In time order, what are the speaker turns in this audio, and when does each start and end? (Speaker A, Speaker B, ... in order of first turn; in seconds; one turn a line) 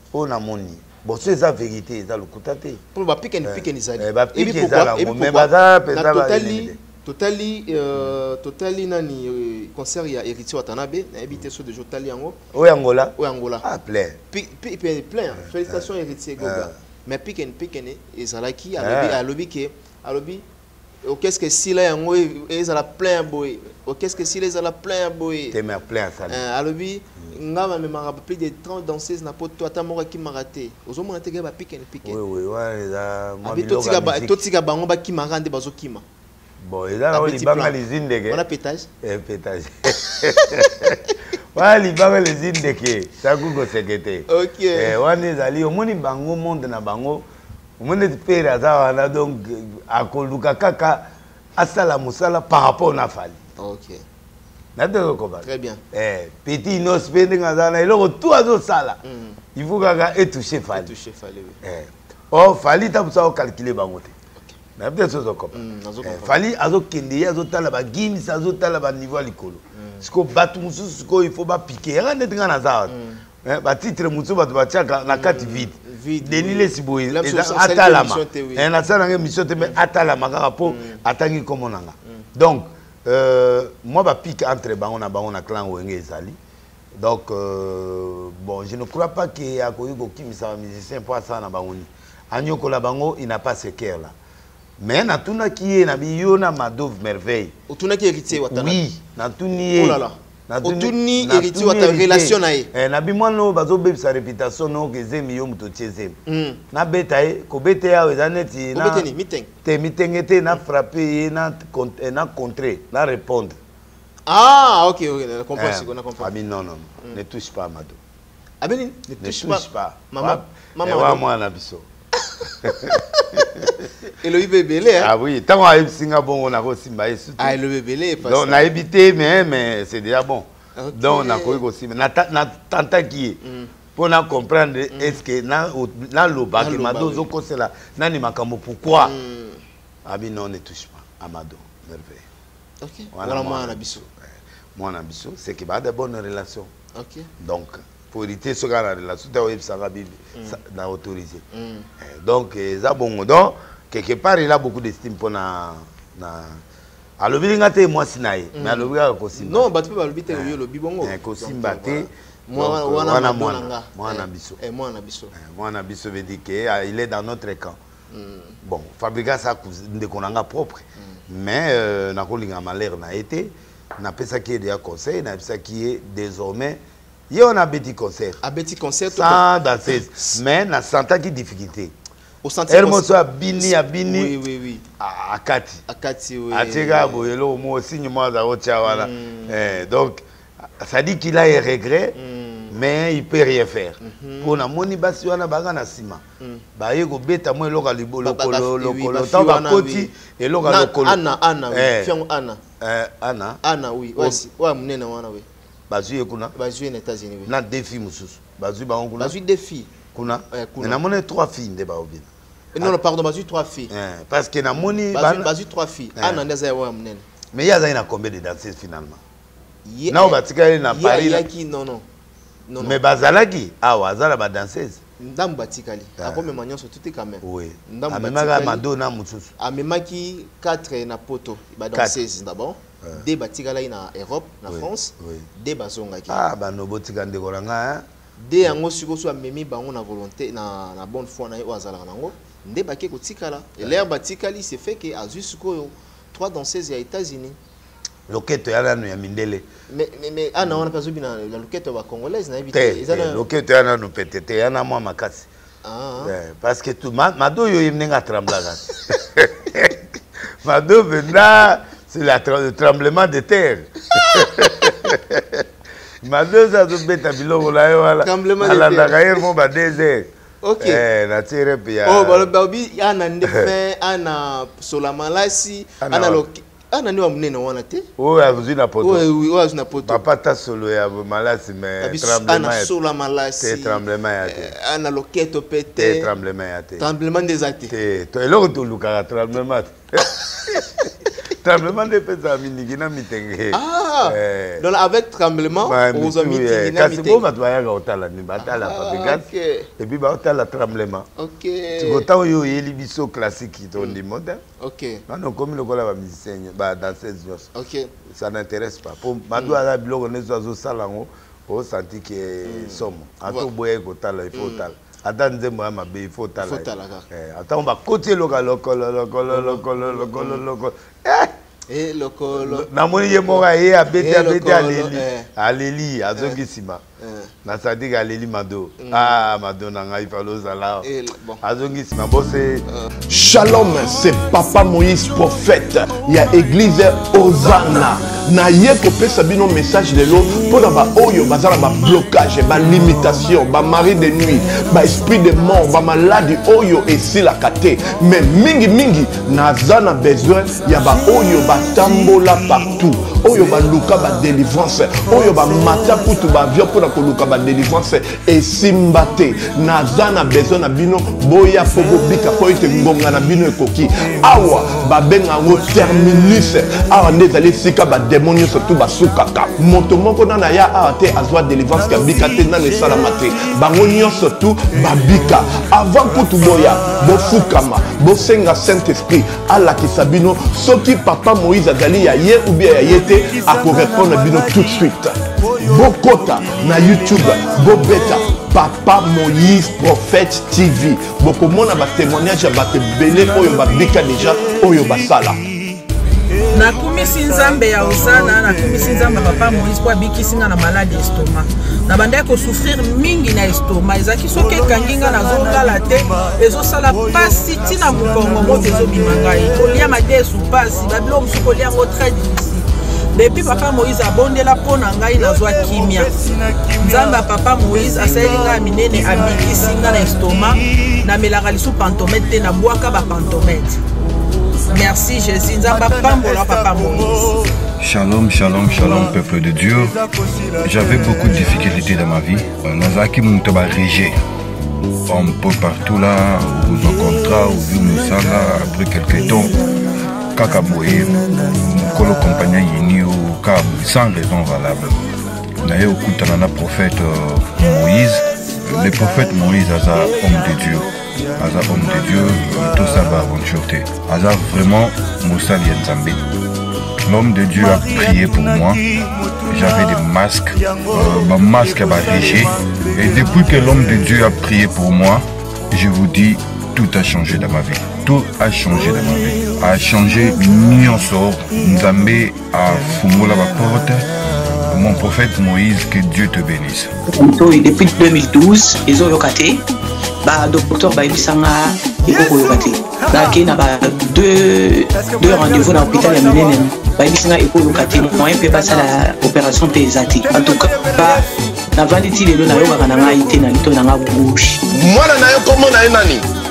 Speaker A: 0.1-2.8
Speaker B: 2.9-12.4
Speaker A: 3.5-6.8
Speaker A: 12.5-14.2
Speaker B: 13.2-13.6
Speaker B: 14.3-20.4
Speaker A: 16.4-16.7
Speaker A: 18.8-19.2
Speaker B: 21.0-25.6
Speaker A: 25.5-26.4
Speaker B: 26.3-32.2
Speaker A: 32.0-34.4
Speaker B: 33.4-36.0
Speaker A: 36.6-38.4
Speaker B: 37.1-38.9
Speaker A: 39.0-47.3
Speaker B: 44.3-45.0
Speaker A: 47.8-53.4
Speaker B: 53.6-54.0
Speaker A: 54.8-59.0
Speaker B: 55.4-55.8
Speaker B: 59.0-59.4
Speaker A: 59.5-60.9
Speaker B: 60.7-61.6
Speaker A: 61.6-64.1
Speaker A: 64.8-86.4
Speaker B: 65.5-66.4
Speaker B: 69.8-70.0
Speaker B: 72.9-73.2
Speaker B: 75.1-78.7
Speaker B: 80.7-81.0
Speaker A: 87.0-94.1
Speaker A: 94.8-97.6
Speaker B: 97.7-98.8
Speaker A: 98.3-106.2
Speaker B: 99.8-102.7
Speaker B: 106.3-106.6
Speaker A: 106.7-109.1
Speaker B: 108.7-109.5
Speaker A: 109.7-113.6
Speaker B: 114.3-116.3
Speaker A: 115.6-118.0
Speaker B: 118.6-121.2
Speaker A: 119.2-121.9
Speaker A: 122.6-123.8
Speaker B: 123.2-123.5
Speaker B: 124.0-125.1
Speaker A: 125.0-127.6
Speaker B: 127.4-128.7
Speaker A: 128.2-133.4
Speaker B: 130.8-131.6
Speaker B: 133.4-133.7
Speaker A: 133.9-139.2
Speaker B: 134.9-135.2
Speaker B: 136.6-137.3
Speaker B: 139.0-139.6
Speaker A: 140.1-142.2
Speaker B: 142.8-144.0
Speaker A: 143.1-146.7
Speaker B: 146.9-147.3
Speaker A: 147.4-151.4
Speaker B: 151.5-151.9
Speaker A: 152.0-156.6
Speaker A: 157.2-159.7
Speaker B: 158.5-165.3
Speaker A: 160.3-164.6
Speaker A: 165.3-167.8
Speaker B: 168.1-168.6
Speaker A: 168.6-178.4
Speaker B: 178.4-180.4
Speaker A: 179.1-181.9
Speaker B: 182.4-184.8
Speaker A: 182.7-184.3
Speaker A: 185.0-185.8
Speaker B: 185.9-187.3
Speaker A: 186.5-192.2
Speaker B: 188.8-189.8
Speaker B: 192.2-192.8
Speaker A: 192.7-196.2
Speaker B: 194.0-194.6
Speaker A: 196.8-202.2
Speaker B: 198.2-200.1
Speaker B: 200.6-202.6
Speaker A: 202.8-203.6
Speaker B: 203.6-205.5
Speaker A: 205.9-206.5
Speaker B: 206.6-207.5
Speaker A: 207.5-209.4
Speaker B: 209.2-209.9
Speaker A: 210.1-212.3
Speaker B: 210.5-211.0
Speaker B: 212.7-213.9
Speaker A: 213.9-215.5
Speaker B: 215.0-217.2
Speaker A: 216.2-216.4
Speaker A: 217.5-219.2
Speaker B: 219.9-222.0
Speaker A: 220.1-221.5
Speaker B: 222.7-223.0
Speaker A: 222.8-225.0
Speaker B: 225.2-228.8
Speaker A: 226.2-226.5
Speaker A: 227.4-229.5
Speaker B: 229.6-236.4
Speaker A: 231.9-232.2
Speaker A: 234.7-235.5
Speaker A: 236.3-238.1
Speaker B: 238.4-247.6
Speaker A: 248.3-249.7
Speaker B: 249.9-253.4
Speaker A: 252.7-255.5
Speaker B: 255.8-256.3
Speaker A: 256.2-260.0
Speaker A: 260.6-265.7
Speaker B: 264.1-265.0
Speaker A: 266.2-272.5
Speaker B: 268.2-269.5
Speaker B: 270.6-271.1
Speaker B: 272.1-278.1
Speaker A: 273.4-273.7
Speaker A: 276.0-276.4
Speaker A: 278.2-279.3
Speaker B: 279.0-280.2
Speaker A: 280.0-282.9
Speaker B: 282.0-286.3
Speaker A: 283.6-284.7
Speaker A: 286.0-287.1
Speaker B: 287.0-287.9
Speaker A: 287.9-294.9
Speaker B: 293.7-297.4
Speaker A: 295.8-299.5
Speaker B: 298.6-299.9
Speaker A: 300.0-301.3
Speaker B: 301.4-302.3
Speaker A: 301.9-304.6
Speaker B: 304.8-305.2
Speaker A: 305.3-307.7
Speaker B: 307.7-308.1
Speaker A: 308.2-321.5
Speaker B: 312.6-313.7
Speaker B: 314.5-314.9
Speaker B: 316.6-317.3
Speaker B: 319.5-320.6
Speaker B: 321.9-322.9
Speaker A: 322.5-327.0
Speaker B: 324.2-325.5
Speaker B: 327.2-327.5
Speaker A: 327.6-331.1
Speaker B: 329.0-329.4
Speaker B: 331.0-331.6
Speaker A: 331.6-332.9
Speaker C: 333.3-395.6
Speaker D: 396.7-424.0
Speaker D: 424.9-427.6
Speaker E: 428.0-430.2
Speaker E: 430.8-434.4
Speaker E: 435.3-439.8
Speaker E: 440.5-445.2
Speaker E: 445.8-456.4
Speaker E: 457.2-459.0
Speaker E: 459.7-474.3
Speaker E: 474.9-477.2
Speaker F: 477.3-479.8
Speaker F: 480.4-494.8
Speaker C: 494.9-496.5